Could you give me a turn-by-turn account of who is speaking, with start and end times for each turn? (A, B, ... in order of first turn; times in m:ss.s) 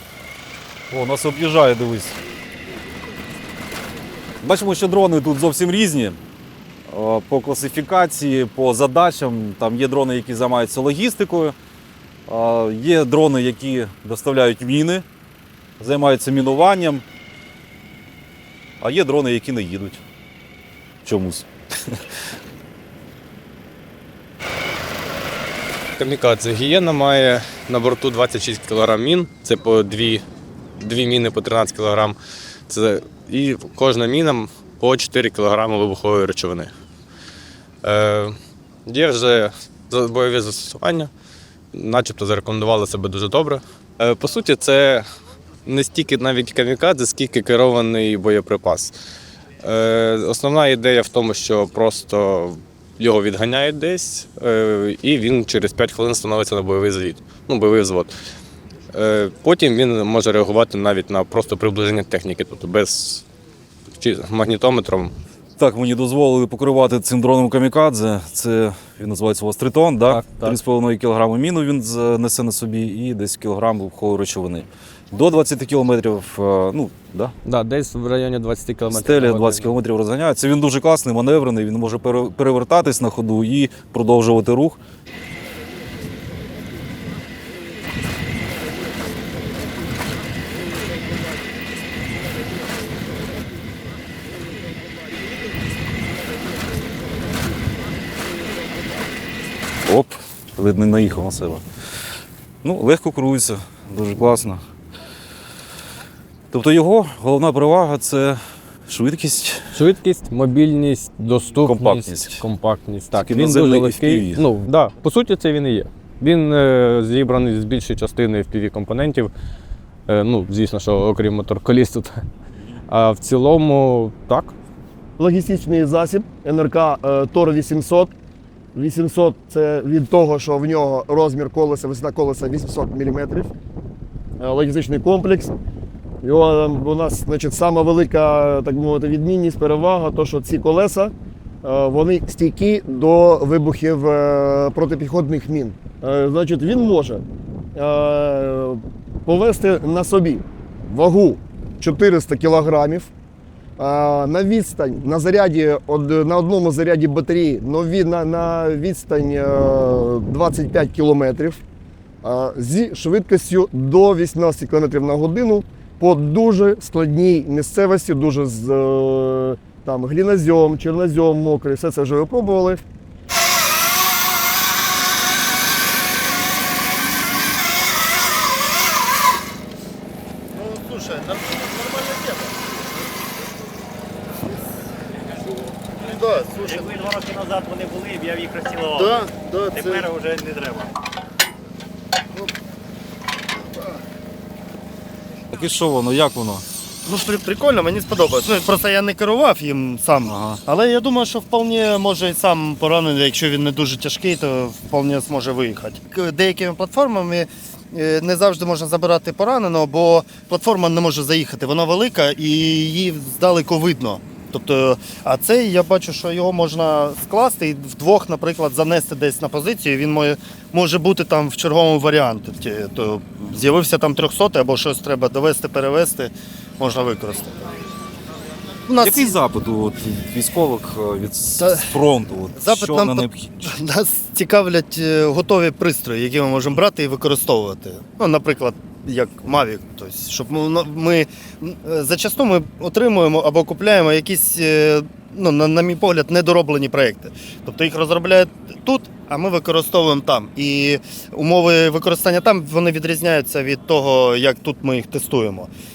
0:00.9-0:02.2 A
0:04.4-0:06.2 A
0:06.9-0:11.6 A
0:12.3-0:15.0 A
0:15.8-0:17.0 A
0:18.8-0:20.0 A
0:21.0-0:22.0 A
0:26.0-0:30.2 B
0:30.8-0:32.2 B
0:32.7-0:36.7 B
0:37.8-0:38.4 B
0:38.9-0:41.1 B
0:41.7-0:45.0 B
0:45.7-0:49.0 B
0:49.6-0:58.1 B
0:58.9-1:03.2 B
1:04.0-1:05.1 B
1:05.6-1:17.3 A
1:10.1-1:10.6 B
1:17.4-1:19.8 B
1:18.9-1:24.8 A
1:39.8-1:41.6 A
1:42.6-1:44.6 A
1:46.5-1:49.8 A
1:49.7-1:59.3 B
1:51.6-1:52.4 A
1:53.1-1:54.4 A
2:00.1-2:02.2 B
2:02.9-2:04.6 B
2:05.2-2:08.1 C
2:08.8-2:13.5 C
2:14.4-2:15.5 C
2:16.2-2:21.1 C
2:21.6-2:27.2 C
2:27.8-2:33.1 C
2:33.8-2:41.6 C
2:42.2-2:52.8 C
3:00.5-3:02.7 D
3:06.0-3:07.0 D
3:06.7-3:09.1 E
3:08.9-3:10.1 D
3:09.7-3:10.9 E
3:15.5-3:16.6 A
3:17.1-3:47.7 D
3:20.2-3:20.6 A
3:48.9-3:49.4 D
3:49.0-3:53.5 A
3:51.6-3:51.9 D
3:52.6-4:15.7 D